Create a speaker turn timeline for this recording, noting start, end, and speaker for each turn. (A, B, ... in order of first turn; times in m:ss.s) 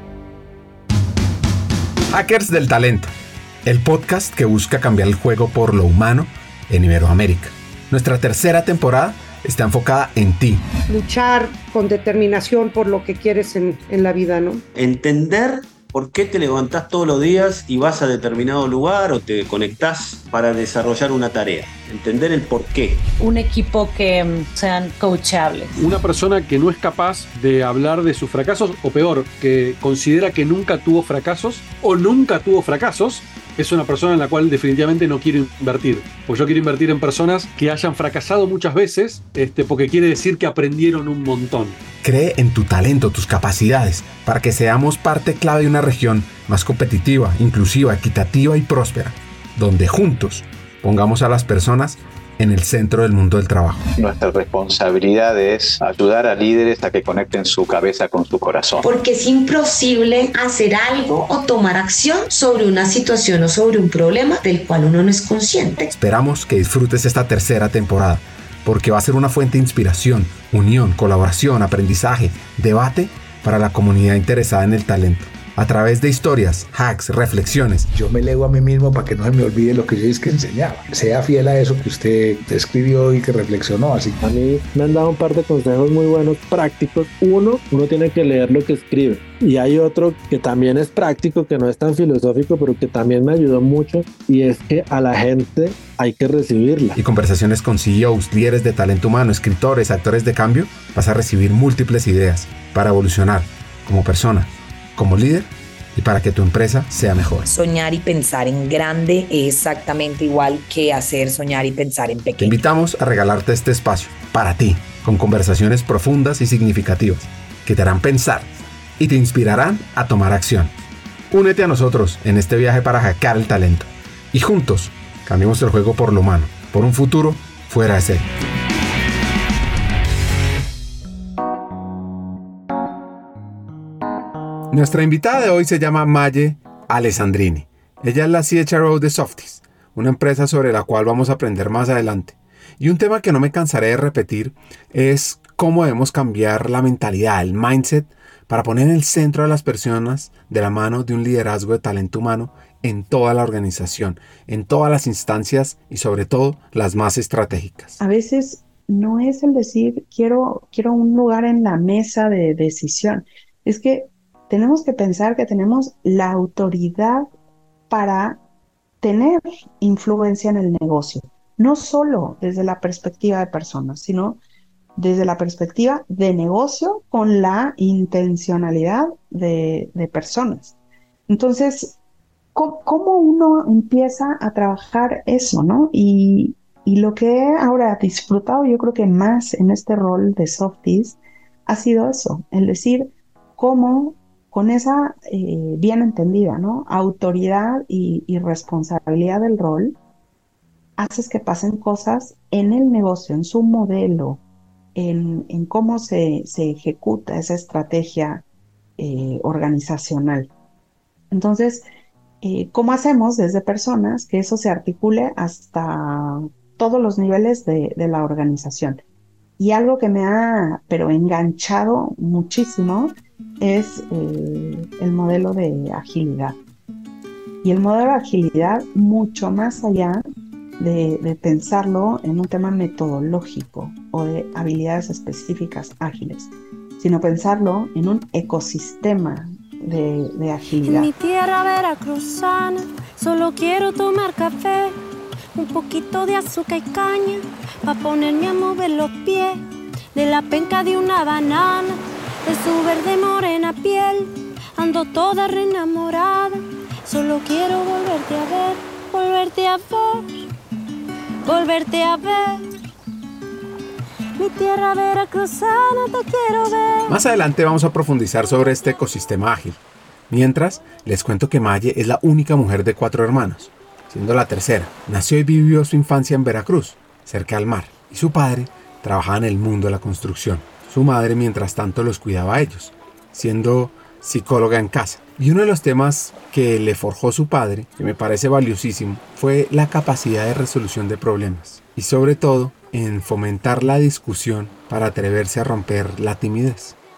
0:02.1-0:10.6 A
0:10.9-0:14.6 B
0:14.8-0:23.0 C
0:23.2-0:25.8 D
0:25.8-0:41.8 E
0:42.0-0:53.9 A
0:54.0-0:58.9 F
0:58.8-1:05.9 G
1:05.9-1:17.9 A
1:17.9-1:24.2 H
1:24.2-1:37.0 I
1:37.0-1:47.5 A
1:47.5-1:52.6 J
1:52.4-2:00.7 A
2:01.3-2:08.3 A
2:14.7-2:38.0 A
2:38.0-2:47.3 K
2:47.9-2:48.4 K
2:49.0-2:54.4 K
2:55.0-3:00.8 K
3:01.3-3:02.0 K
3:02.6-3:20.0 K
3:21.0-3:24.4 K
3:25.0-3:28.4 K
3:29.0-3:30.5 K
3:31.3-3:31.9 K
3:32.4-3:39.0 K
3:39.6-3:46.6 K
3:47.6-3:50.2 K
3:50.8-4:01.1 K
4:00.9-4:05.0 L
4:05.6-4:09.6 L
4:10.2-4:20.3 L
4:21.4-4:22.7 L
4:24.4-4:27.2 L
4:27.1-4:57.0 A